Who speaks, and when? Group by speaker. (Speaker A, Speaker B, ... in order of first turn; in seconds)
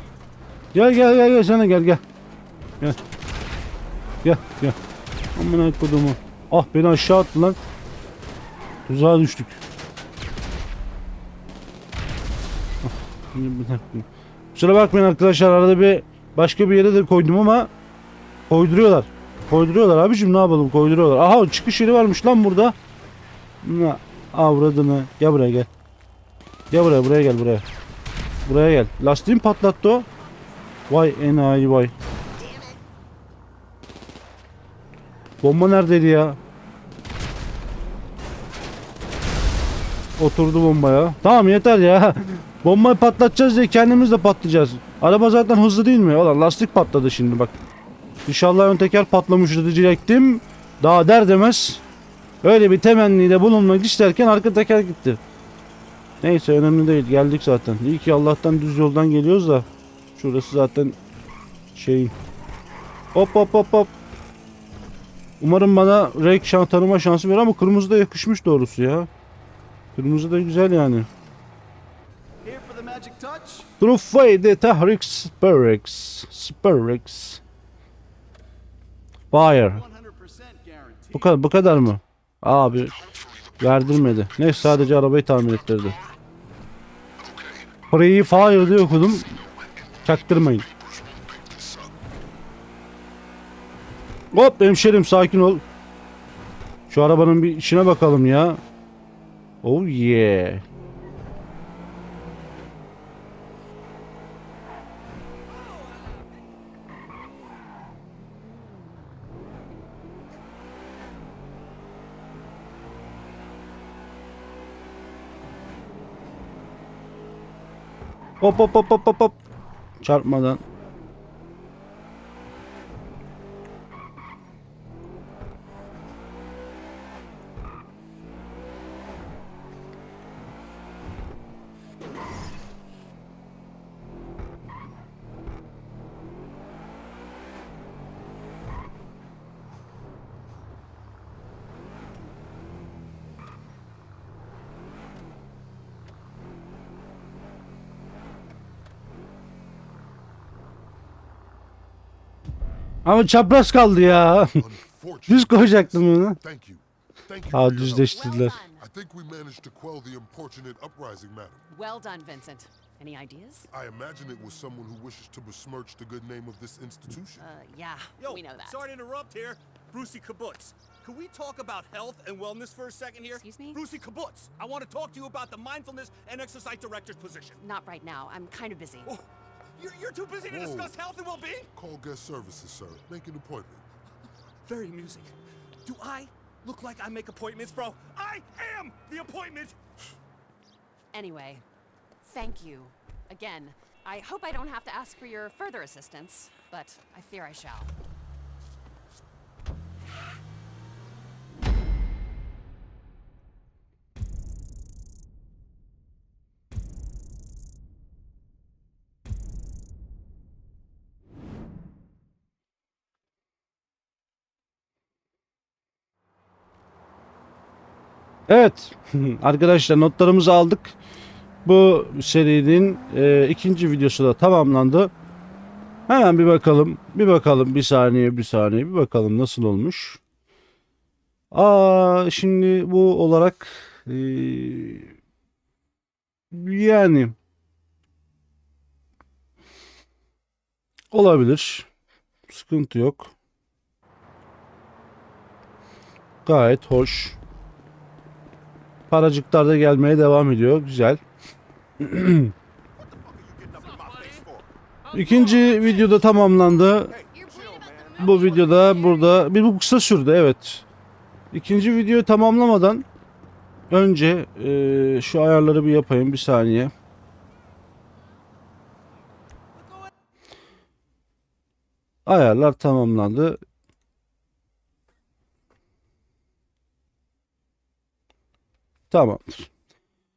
Speaker A: 0.7-2.0, 4.2-4.8, 5.4-7.6, 8.9-9.6, 12.8-17.7, 18.5-22.8, 23.6-25.7, 26.7-27.6, 28.4-30.1, 30.9-31.9, 35.4-36.4, 40.2-47.5, 48.2-51.8, 52.4-55.2, 56.2-61.0, 61.8-62.1, 63.1-63.9, 65.4-69.1, 69.9-71.1, 73.8-77.4, 79.3-79.8, 81.1-82.9, 83.6-86.0, 87.9-89.3, 90.0-90.7, 94.3-95.6, 96.9-98.6, 99.6-100.6, 118.4-119.4, 120.0-120.6, 153.1-154.7, 155.3-156.4, 157.5-158.6, 218.5-220.9, 221.7-225.1, 226.1-230.2, 231.5-235.2, 236.5-237.3, 241.1-241.9, 242.5-243.3, 246.4-247.3, 249.1-251.2, 252.0-252.5, 255.1-257.2, 258.2-260.8, 261.5-263.1, 263.9-266.9, 272.3-273.6, 279.1-279.7
Speaker B: 72.4-73.7, 79.7-81.3, 168.2-177.6, 179.8-181.7, 184.7-189.8, 252.9-256.2, 257.1-259.2
Speaker C: 82.9-84.9, 87.2-87.7, 88.8-91.9, 154.6-158.2, 158.8-161.6, 163.7-167.4, 180.4-181.0, 181.7-183.8
Speaker D: 158.0-158.8, 161.7-163.7, 167.3-168.8, 173.3-173.8, 177.6-179.2, 191.1-191.6, 192.2-197.9, 257.3-258.8